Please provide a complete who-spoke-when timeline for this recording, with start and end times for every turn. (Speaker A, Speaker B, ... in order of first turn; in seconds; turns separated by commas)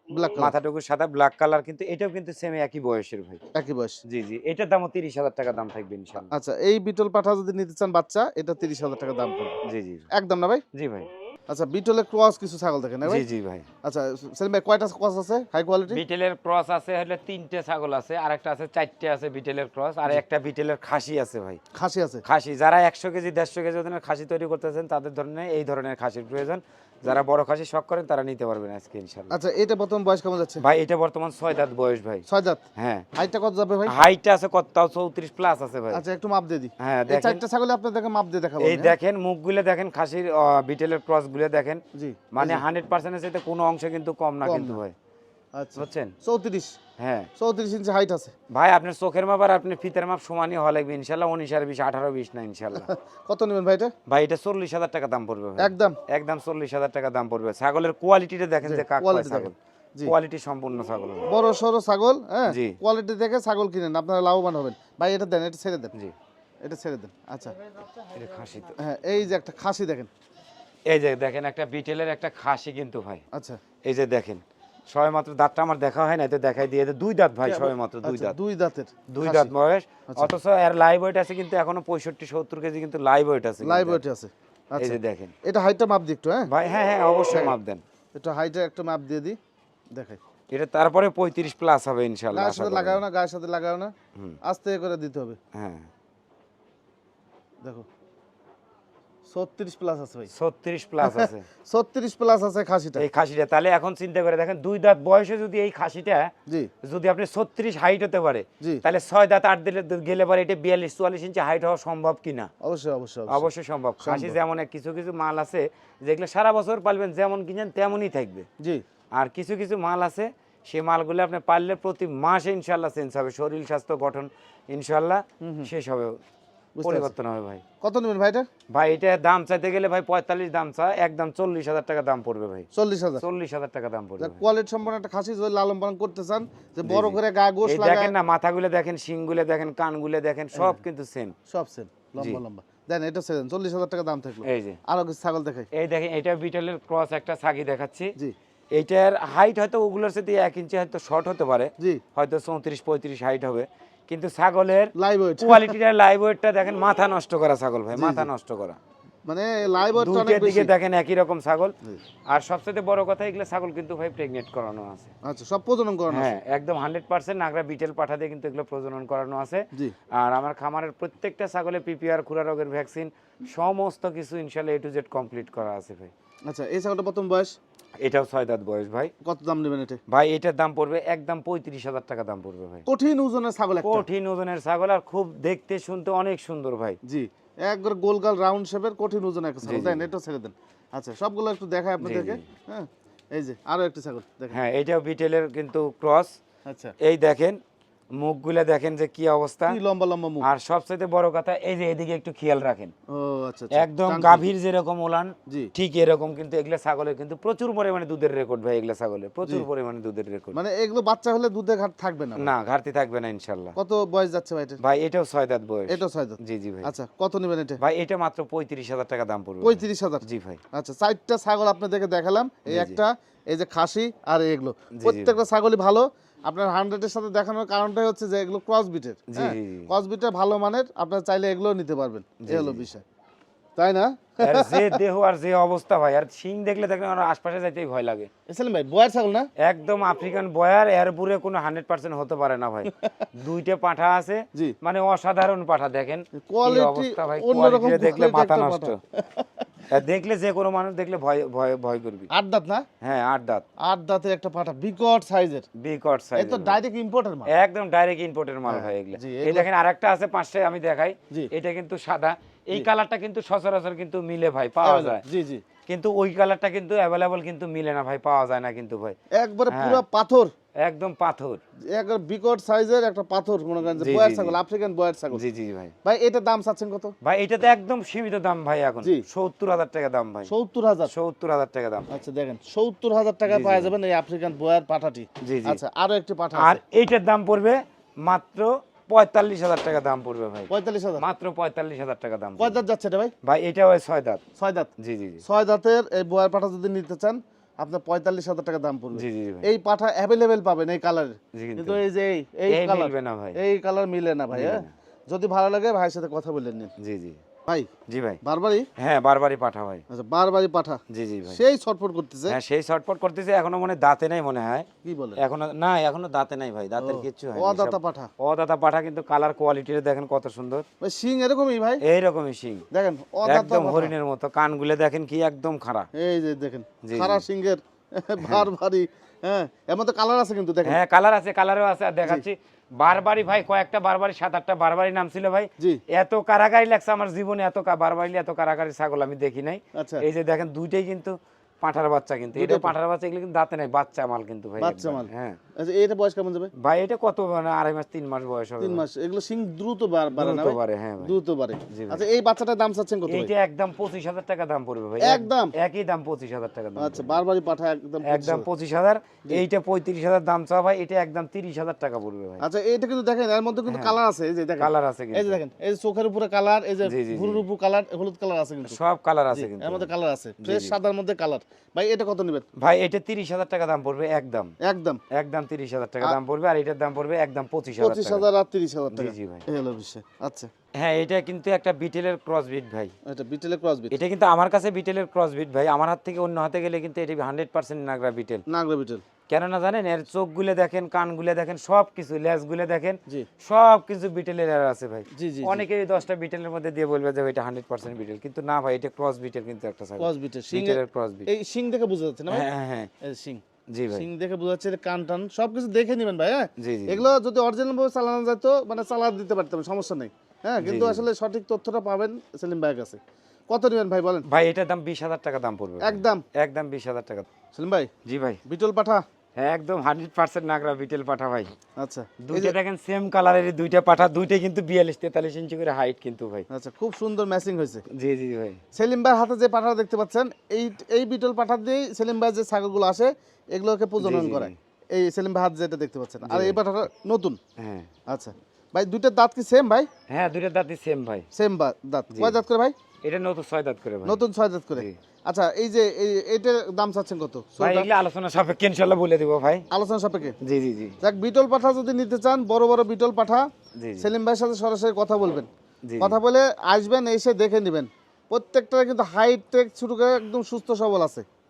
Speaker A: 0.1-0.5, Speaker B: 0.4-3.4, Speaker A: 3.5-4.0, Speaker B: 4.0-6.3, Speaker A: 6.3-9.6, Speaker B: 9.6-10.1, Speaker A: 10.1-10.6, Speaker B: 10.7-11.1, Speaker A: 11.5-13.2, Speaker B: 13.0-13.7, Speaker A: 13.8-16.0, Speaker B: 15.9-21.6, Speaker A: 21.7-22.2, Speaker B: 22.2-29.4, Speaker A: 29.3-30.6, Speaker B: 30.6-32.2, Speaker A: 32.3-32.6, Speaker B: 32.8-33.0, Speaker A: 33.2-33.9, Speaker B: 33.9-36.0, Speaker A: 35.9-38.9, Speaker B: 36.8-37.4, Speaker B: 38.6-41.8, Speaker A: 41.9-42.6, Speaker B: 42.3-44.9, Speaker A: 44.4-44.8, Speaker A: 45.5-46.7, Speaker B: 45.8-46.1, Speaker B: 47.0-47.3, Speaker A: 47.4-48.3, Speaker B: 48.5-52.9, Speaker A: 52.8-53.9, Speaker B: 54.1-61.3, Speaker A: 55.6-56.0, Speaker A: 58.6-60.1, Speaker A: 61.2-65.9, Speaker B: 62.5-62.8, Speaker A: 66.7-67.6, Speaker B: 68.1-68.8, Speaker A: 68.8-70.1, Speaker B: 70.9-73.2, Speaker A: 73.3-73.6, Speaker B: 73.8-78.3, Speaker A: 77.5-79.5, Speaker B: 79.1-84.0, Speaker A: 83.6-86.5, Speaker B: 84.8-85.3, Speaker B: 86.5-87.8, Speaker A: 88.1-89.4, Speaker B: 90.5-93.0, Speaker A: 92.3-95.4, Speaker B: 95.5-95.9, Speaker A: 99.3-100.3, Speaker B: 100.3-101.5, Speaker A: 101.0-103.0, Speaker B: 103.0-106.3, Speaker B: 106.8-112.5, Speaker A: 112.6-113.5, Speaker B: 113.3-118.5, Speaker A: 114.0-114.3, Speaker B: 119.2-126.2, Speaker A: 125.4-125.7, Speaker A: 126.8-127.1, Speaker B: 126.8-127.6, Speaker A: 127.8-128.5, Speaker B: 128.7-134.4, Speaker A: 132.7-133.2, Speaker A: 134.2-138.1, Speaker B: 136.8-141.3, Speaker A: 141.5-145.7, Speaker B: 144.4-144.8, Speaker B: 145.7-148.1, Speaker B: 148.7-158.8, Speaker A: 154.9-155.7, Speaker A: 157.9-158.3, Speaker A: 159.2-160.7, Speaker B: 160.0-161.7, Speaker B: 162.3-165.1, Speaker A: 165.2-166.3, Speaker B: 166.1-176.1, Speaker A: 176.5-177.5, Speaker B: 178.0-179.1, Speaker A: 179.2-180.0, Speaker B: 180.1-182.8, Speaker A: 182.9-184.1, Speaker B: 183.8-187.0, Speaker A: 187.1-194.6, Speaker B: 189.6-190.1, Speaker B: 192.0-192.4, Speaker B: 194.5-196.3, Speaker A: 196.7-196.9, Speaker B: 197.0-197.6, Speaker B: 198.2-199.8, Speaker A: 199.7-200.4, Speaker B: 200.4-202.9, Speaker A: 203.1-204.4, Speaker B: 203.7-210.6, Speaker A: 210.5-212.5, Speaker B: 212.4-213.8, Speaker A: 213.8-214.8, Speaker B: 214.8-216.9, Speaker A: 215.9-217.8, Speaker B: 217.8-220.6, Speaker A: 219.6-233.0, Speaker B: 222.7-223.0, Speaker B: 224.9-225.4, Speaker B: 229.3-229.9, Speaker B: 232.4-232.8, Speaker A: 233.8-235.0, Speaker B: 234.4-238.3, Speaker A: 238.5-239.5, Speaker B: 239.6-249.0, Speaker A: 243.0-243.3, Speaker A: 246.4-249.7, Speaker B: 249.9-252.3, Speaker A: 252.3-252.8, Speaker B: 253.0-253.6, Speaker A: 253.8-255.7, Speaker B: 255.8-256.8, Speaker A: 256.4-257.5, Speaker B: 257.5-265.2, Speaker A: 258.7-259.7, Speaker A: 264.8-265.6, Speaker B: 265.9-269.1, Speaker A: 269.3-270.5, Speaker B: 269.7-270.0, Speaker B: 270.8-271.6, Speaker A: 271.9-275.4, Speaker B: 274.0-274.6, Speaker B: 275.3-275.9, Speaker A: 276.0-277.1, Speaker B: 277.2-280.5, Speaker A: 280.4-281.1, Speaker B: 281.1-282.1, Speaker A: 282.1-286.8, Speaker B: 283.5-283.9, Speaker B: 285.4-285.8, Speaker B: 286.5-292.8, Speaker A: 290.7-291.2, Speaker A: 292.6-293.3, Speaker B: 293.4-294.4, Speaker A: 294.6-294.9, Speaker B: 295.0-295.4, Speaker A: 295.4-306.9, Speaker B: 299.1-299.7, Speaker B: 301.5-302.0, Speaker B: 302.7-303.6, Speaker B: 304.5-304.9, Speaker B: 307.0-307.4, Speaker B: 308.1-308.4, Speaker A: 308.4-308.9, Speaker B: 309.0-310.0, Speaker A: 310.1-312.6, Speaker B: 311.1-311.6, Speaker B: 312.5-314.9, Speaker A: 315.0-315.4, Speaker B: 315.4-320.8, Speaker A: 317.0-318.3, Speaker A: 321.0-322.0, Speaker B: 322.0-322.9, Speaker A: 322.9-324.1, Speaker B: 323.4-326.1, Speaker A: 326.1-331.0, Speaker B: 327.0-327.4, Speaker B: 328.4-328.7, Speaker B: 330.8-345.6, Speaker A: 340.0-340.2, Speaker A: 342.5-342.9, Speaker A: 344.8-346.7, Speaker B: 346.8-349.0, Speaker A: 348.8-353.5, Speaker B: 350.3-351.3, Speaker B: 351.9-352.2, Speaker B: 353.3-357.4, Speaker A: 355.2-355.7, Speaker A: 357.0-358.7, Speaker B: 358.2-362.6, Speaker A: 362.6-369.0, Speaker B: 363.9-364.2, Speaker B: 364.8-365.6, Speaker B: 367.0-367.6, Speaker B: 368.9-370.1, Speaker A: 369.5-372.6, Speaker B: 370.6-370.9, Speaker B: 372.8-374.7, Speaker A: 374.8-375.2, Speaker B: 375.3-378.4, Speaker A: 378.0-380.7, Speaker B: 379.1-379.6, Speaker B: 381.0-383.1, Speaker A: 383.3-384.1, Speaker B: 384.1-388.6, Speaker A: 388.7-389.2, Speaker B: 389.5-401.5, Speaker A: 395.3-395.8, Speaker A: 400.2-402.6, Speaker B: 402.5-403.1, Speaker A: 403.2-413.2, Speaker B: 403.9-404.2, Speaker B: 406.8-407.3, Speaker B: 410.8-411.2, Speaker A: 413.7-414.4, Speaker B: 414.5-417.5, Speaker A: 416.0-416.4, Speaker A: 417.7-418.1, Speaker B: 418.2-418.6, Speaker A: 418.7-419.2, Speaker B: 419.6-421.7, Speaker A: 422.0-422.7, Speaker B: 422.4-426.6, Speaker A: 426.7-428.0, Speaker B: 428.1-428.8, Speaker A: 428.9-437.6, Speaker B: 434.2-434.8, Speaker B: 436.4-436.8, Speaker B: 437.8-438.1, Speaker A: 438.3-440.1, Speaker B: 440.3-441.4, Speaker A: 441.5-442.9, Speaker B: 443.2-444.4, Speaker A: 444.2-448.1, Speaker B: 447.8-449.9, Speaker A: 449.9-450.5, Speaker B: 450.6-451.2, Speaker A: 451.2-453.7, Speaker B: 454.0-454.3, Speaker A: 454.2-455.7, Speaker B: 456.1-456.4, Speaker A: 456.2-461.4